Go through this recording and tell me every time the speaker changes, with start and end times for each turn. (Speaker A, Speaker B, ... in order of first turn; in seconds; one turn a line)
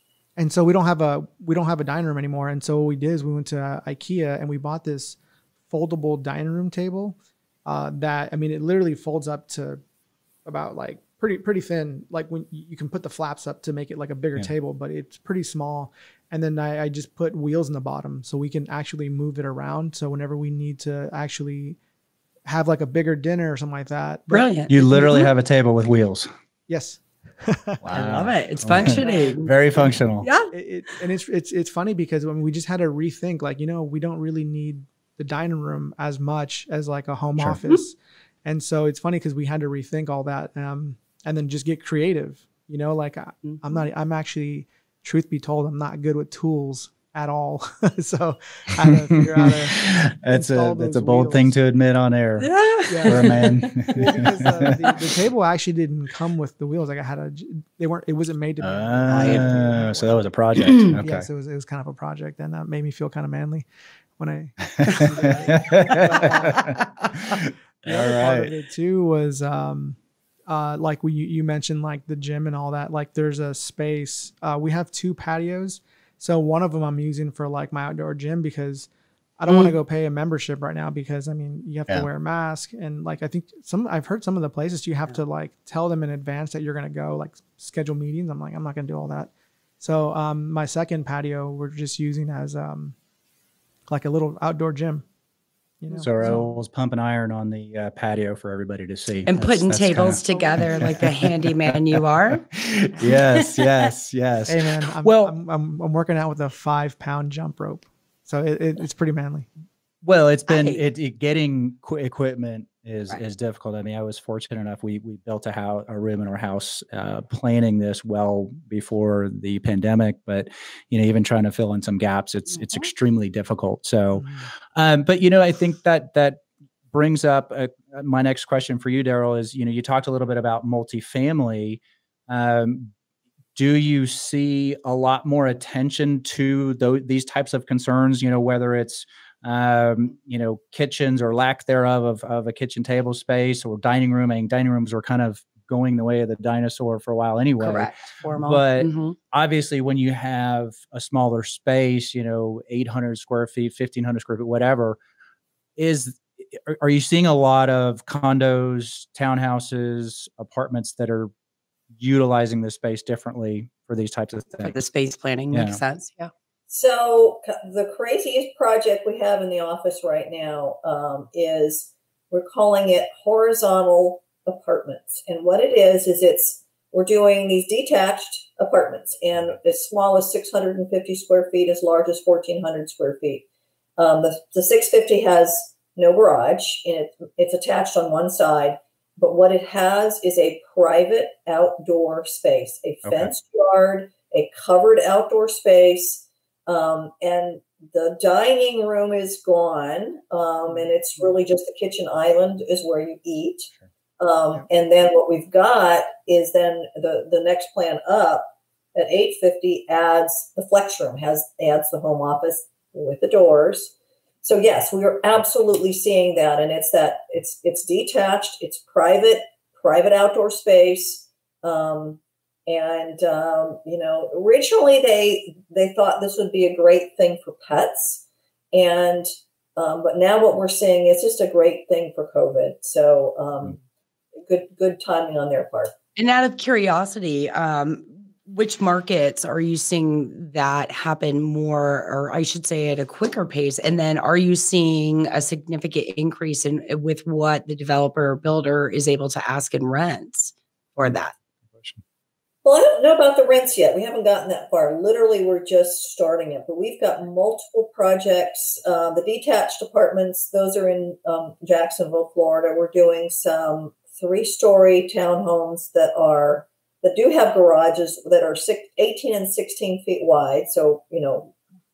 Speaker A: 0.4-5.2
Speaker A: 5.7-9.8
Speaker A: 10.4-21.8
Speaker A: 22.5-24.5
Speaker B: 24.3-25.3
Speaker C: 24.7-26.3
Speaker A: 26.7-28.1
Speaker C: 27.8-30.3
Speaker B: 27.9-30.5
Speaker A: 28.8-29.4
Speaker A: 30.5-51.5
Speaker B: 43.5-43.8
Speaker C: 49.4-52.5
Speaker B: 52.4-54.0
Speaker A: 52.9-60.3
Speaker C: 53.0-54.8
Speaker C: 58.6-61.3
Speaker B: 59.1-59.6
Speaker B: 60.6-61.0
Speaker A: 60.8-93.0
Speaker C: 64.7-68.5
Speaker B: 79.5-79.8
Speaker A: 93.9-95.0
Speaker A: 95.8-96.6
Speaker C: 96.0-105.3
Speaker B: 99.3-102.5
Speaker A: 100.3-101.1
Speaker B: 103.0-103.9
Speaker A: 104.5-109.5
Speaker C: 110.0-132.9
Speaker B: 110.5-110.8
Speaker B: 122.5-122.9
Speaker A: 124.1-124.5
Speaker C: 133.6-155.0
Speaker B: 147.6-149.2
Speaker C: 155.8-161.3
Speaker C: 162.0-164.8
Speaker B: 164.6-166.3
Speaker C: 165.5-165.8
Speaker D: 166.7-183.4
Speaker D: 184.0-233.8
Speaker C: 193.1-193.3
Speaker D: 234.5-235.9
Speaker B: 236.2-251.3
Speaker C: 251.7-252.0
Speaker D: 252.7-271.6